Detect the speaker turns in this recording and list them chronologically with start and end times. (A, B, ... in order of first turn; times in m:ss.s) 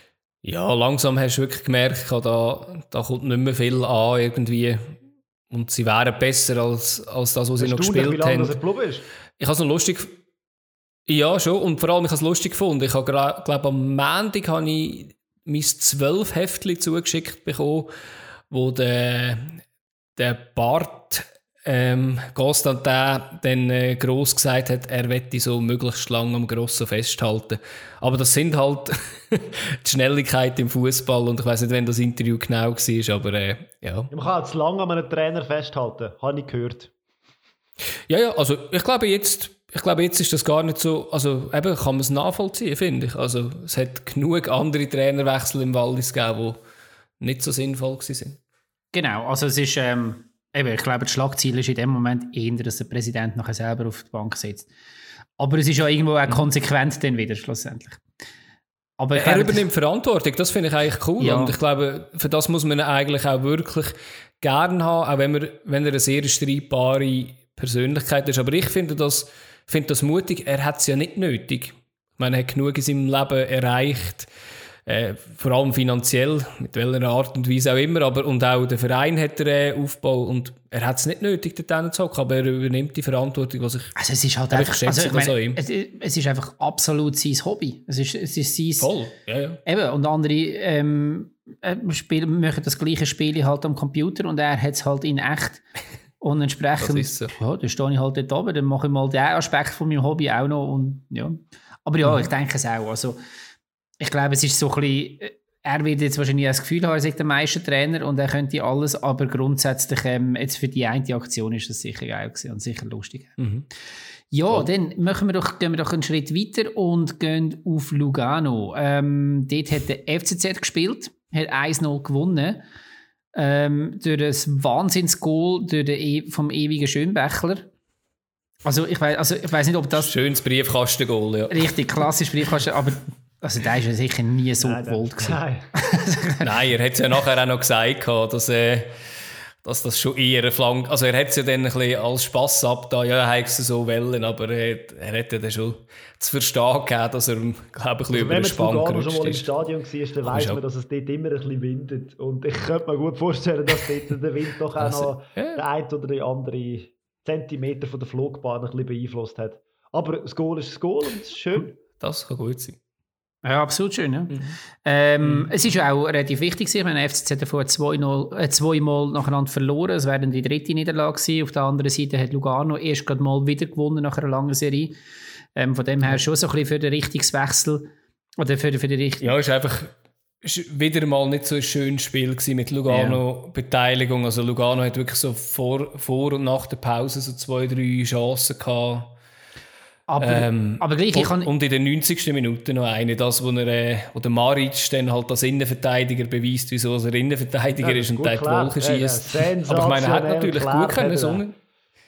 0:00.4-0:05.0 A
0:05.5-0:08.6 A
0:07.6-0:09.1 B
0:09.4-0:10.2 A
0:11.1-0:17.9 A
0:18.5-0:19.6 A
0:20.2-0:34.1 A
0:34.1-0:36.9 B
0:38.1-0:46.6 A
0:47.2-0:48.4 A
0:48.9-0:54.7 C
0:55.4-0:58.0 C
0:59.0-0:59.6 C
0:59.2-1:14.3 A
1:01.2-1:01.6 C
1:14.9-1:23.9 A
1:24.0-1:28.9 C
1:24.5-1:25.6 A
1:28.8-1:29.6 A
1:29.6-1:35.6 C
1:36.2-1:43.2 C
1:36.8-1:37.3 A
1:44.0-1:53.4 C
1:53.4-1:53.6 A
1:54.3-2:02.6 C
2:03.3-2:07.7 C
2:08.6-2:10.1 C
2:09.9-2:11.7 A
2:11.5-2:16.4 C
2:14.6-2:15.7 B
2:16.4-2:19.1 A
2:19.6-2:29.5 A
2:28.1-2:41.8 B
2:30.2-2:30.6 A
2:34.8-2:35.6 A
2:42.0-2:42.8 A
2:43.4-2:55.0 C
2:45.2-2:45.5 A
2:55.6-2:59.3 C
2:59.2-3:09.2 A
3:02.9-3:03.2 C
3:10.1-3:11.5 C
3:10.2-3:21.5 A
3:17.8-3:21.4 B